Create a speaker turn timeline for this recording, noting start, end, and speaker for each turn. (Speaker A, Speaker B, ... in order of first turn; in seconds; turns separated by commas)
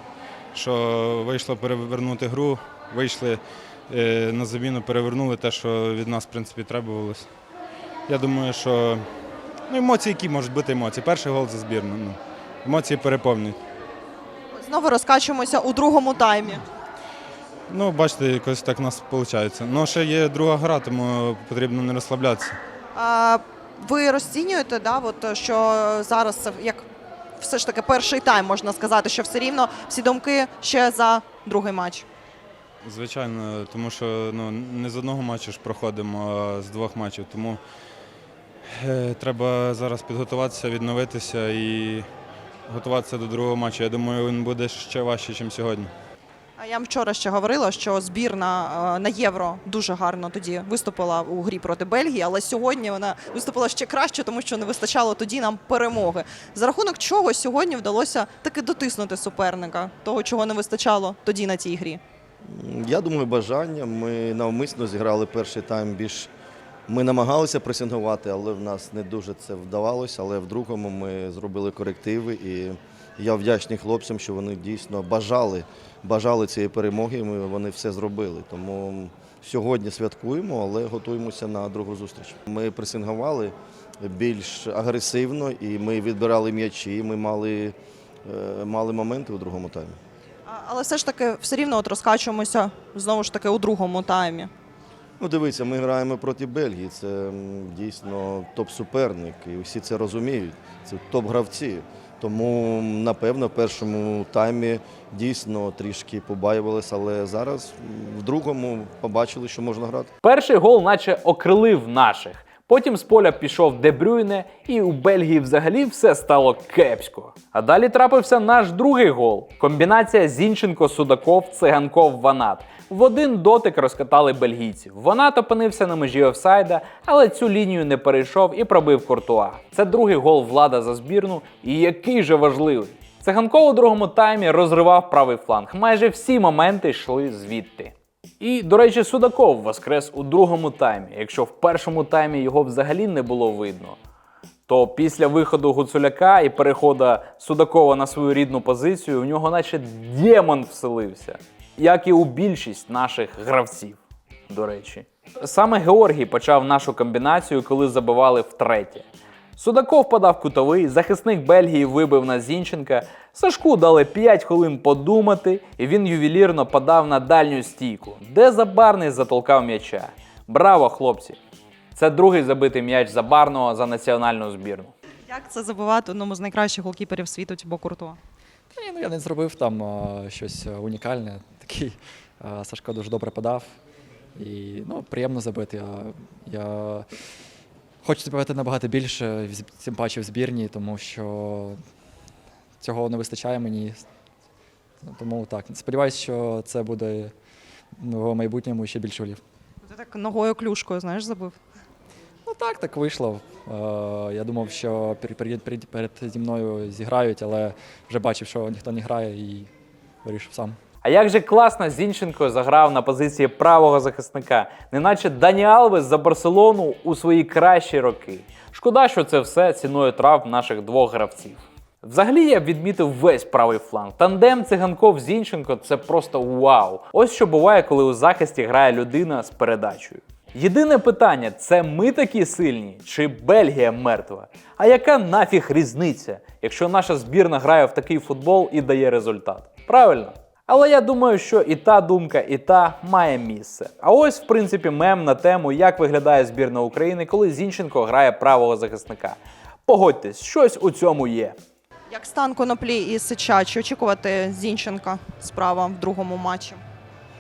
Speaker A: 0.5-7.2, Speaker A: 8.1-9.0, Speaker A: 9.7-13.6, Speaker B: 14.6-16.6, Speaker A: 17.7-22.6, Speaker B: 22.9-26.8, Speaker B: 27.4-32.0, Speaker A: 32.8-37.6, Speaker A: 38.8-42.1, Speaker A: 42.7-45.9, Speaker B: 46.6-62.0, Speaker C: 62.5-66.3, Speaker C: 66.9-90.0, Speaker B: 90.5-94.5, Speaker C: 95.2-110.1, Speaker D: 110.2-144.0, Speaker D: 144.7-159.0, Speaker D: 159.6-171.4, Speaker D: 171.9-174.9, Speaker B: 175.3-178.2, Speaker E: 178.8-183.8, Speaker E: 184.3-187.1, Speaker E: 188.0-191.8, Speaker E: 192.8-194.0, Speaker E: 195.0-197.3, Speaker E: 198.0-199.4, Speaker B: 199.8-201.6, Speaker E: 202.4-209.7, Speaker E: 210.2-210.8, Speaker D: 211.0-251.6, Speaker B: 252.1-256.8